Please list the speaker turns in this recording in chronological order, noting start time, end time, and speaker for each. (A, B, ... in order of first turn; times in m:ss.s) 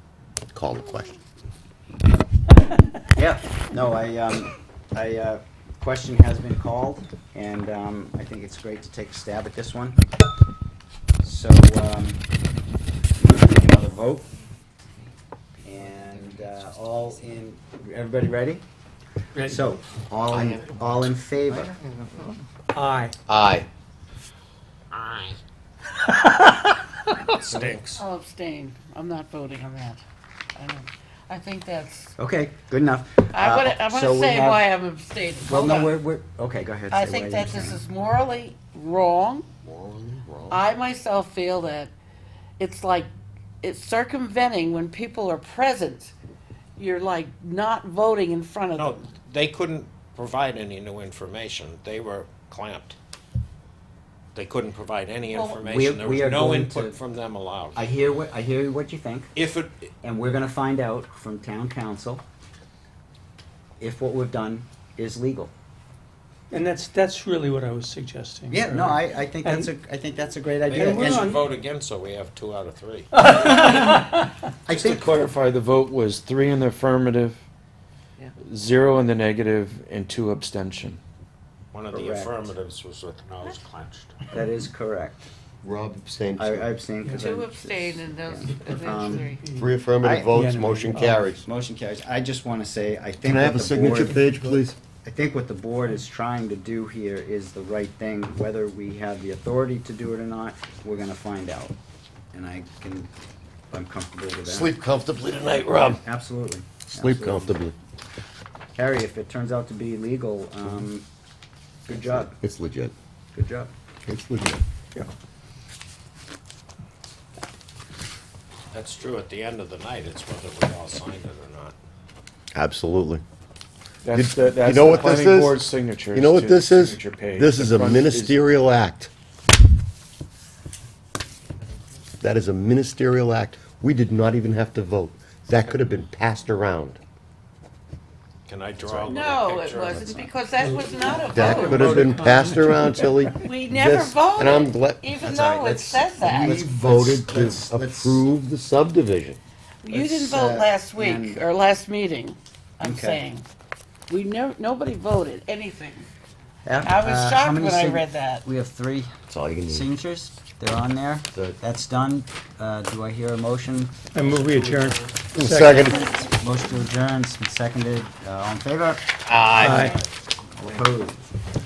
0:00.5-0:01.1 A
0:03.2-0:10.0 B
0:11.2-0:12.2 B
0:13.2-0:14.3 B
0:15.6-0:18.6 B
0:19.4-0:19.6 C
0:19.4-0:21.8 B
0:20.3-0:20.8 A
0:22.7-0:23.2 C
0:23.3-0:23.7 A
0:24.9-0:25.4 D
0:27.1-0:28.0 D
0:27.5-0:27.7 B
0:28.0-0:30.0 E
0:30.6-0:32.1 E
0:32.2-0:34.7 B
0:33.3-0:36.0 E
0:35.4-0:37.8 B
0:36.9-0:39.5 E
0:39.6-0:40.6 A
0:40.5-0:41.9 E
0:42.6-0:43.1 E
0:43.6-0:46.1 E
0:46.8-0:49.1 E
0:48.8-0:53.0 D
0:54.3-0:57.9 D
0:55.3-0:55.6 E
0:55.6-0:57.0 B
0:57.8-0:59.3 B
0:59.4-0:59.9 D
1:00.0-1:02.2 B
1:03.8-1:05.5 B
1:06.5-1:09.7 C
1:08.5-1:11.4 B
1:10.7-1:13.1 D
1:10.8-1:11.4 C
1:13.2-1:14.3 C
1:14.7-1:15.2 B
1:14.8-1:17.4 F
1:18.5-1:21.0 F
1:21.7-1:24.1 D
1:21.9-1:22.5 B
1:24.3-1:25.3 B
1:25.6-1:26.7 A
1:26.4-1:29.3 B
1:27.2-1:29.4 E
1:29.5-1:31.4 A
1:30.0-1:30.4 B
1:30.3-1:31.3 C
1:31.4-1:41.8 B
1:33.2-1:34.8 A
1:42.3-1:43.1 B
1:43.7-1:44.7 B
1:44.4-1:46.0 A
1:45.8-1:47.6 B
1:46.9-1:47.8 A
1:48.8-1:51.1 B
1:51.9-1:52.4 B
1:51.9-1:52.9 A
1:53.3-1:53.7 B
1:54.0-1:54.6 A
1:58.7-2:01.8 D
2:02.5-2:03.2 A
2:04.0-2:08.4 F
2:04.2-2:05.6 A
2:06.1-2:09.1 A
2:12.2-2:17.0 A
2:18.5-2:20.3 D
2:18.8-2:19.2 A
2:19.1-2:22.5 E
2:21.3-2:25.1 A
2:21.5-2:22.1 B
2:23.4-2:26.6 E
2:25.2-2:28.2 B
2:26.2-2:29.4 A
2:29.8-2:33.5 E
2:29.9-2:31.5 B
2:32.8-2:33.2 B
2:34.1-2:36.1 E
2:36.6-2:39.1 B
2:36.8-2:38.5 E
2:39.3-2:39.9 A
2:39.7-2:44.0 B
2:44.1-2:46.0 C
2:45.4-2:46.2 A
2:46.1-2:50.0 B
2:49.2-2:50.0 A
2:49.6-2:50.0 C
2:50.6-2:51.2 B